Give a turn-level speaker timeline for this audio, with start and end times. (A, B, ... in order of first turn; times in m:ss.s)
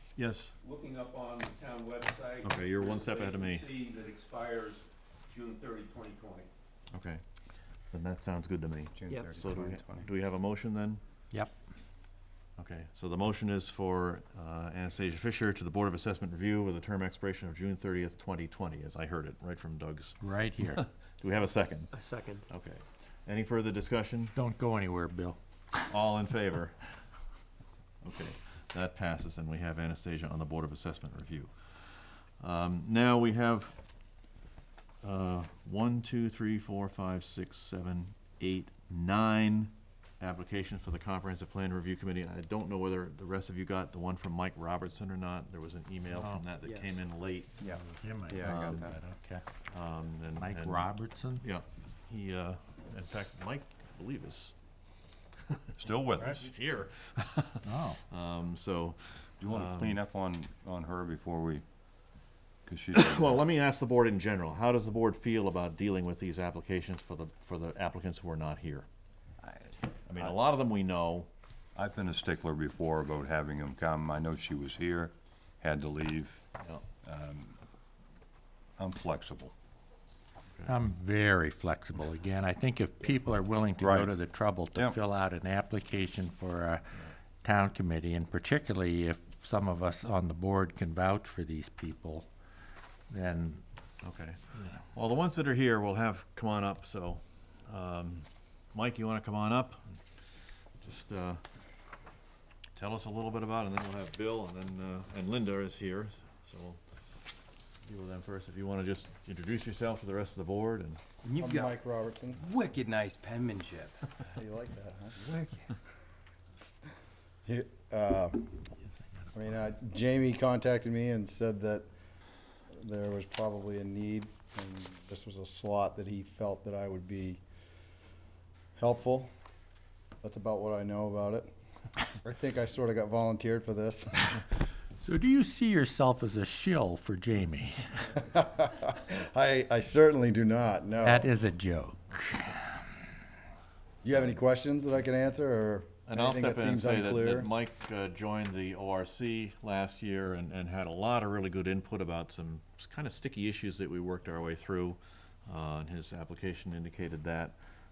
0:00.2-0:00.5 A
0:00.6-0:04.8 B
0:02.4-0:03.7 A
0:05.3-0:06.5 B
0:06.9-0:07.2 A
0:07.9-0:11.0 A
0:09.0-0:10.1 C
0:12.6-0:24.4 A
0:20.2-0:20.8 D
0:24.4-0:25.4 D
0:25.9-0:26.8 A
0:28.0-0:33.8 A
0:35.0-0:47.6 A
0:46.1-0:46.4 D
0:46.6-0:47.0 C
0:47.6-0:49.0 C
0:47.7-0:49.4 D
0:48.4-0:48.9 A
0:49.7-0:54.6 A
0:50.4-0:51.4 D
0:55.5-1:00.0 A
0:55.8-0:56.5 E
0:57.6-0:58.0 D
0:59.4-1:01.6 E
1:02.7-1:03.4 E
1:02.9-1:08.9 A
1:10.0-1:11.3 A
1:11.8-1:16.4 E
1:16.6-1:16.8 A
1:17.0-1:17.6 E
1:18.8-1:19.5 E
1:20.7-1:26.9 D
1:23.8-1:24.2 E
1:27.4-1:32.3 D
1:33.1-1:33.6 D
1:34.0-1:40.0 A
1:40.8-1:41.4 A
1:42.8-1:46.8 A
1:47.8-1:51.0 A
1:51.2-1:51.8 C
1:51.4-1:52.4 F
1:52.4-1:54.1 C
1:54.3-1:55.2 F
1:55.2-1:55.8 C
1:57.4-1:58.7 F
1:58.8-1:59.3 D
1:59.3-2:01.9 F
2:02.8-2:07.4 F
2:08.8-2:09.3 F
2:10.2-2:11.5 F
2:12.2-2:14.2 F
2:15.0-2:18.1 D
2:18.3-2:21.3 F
2:21.0-2:22.6 D
2:24.0-2:27.5 F
2:26.1-2:37.6 A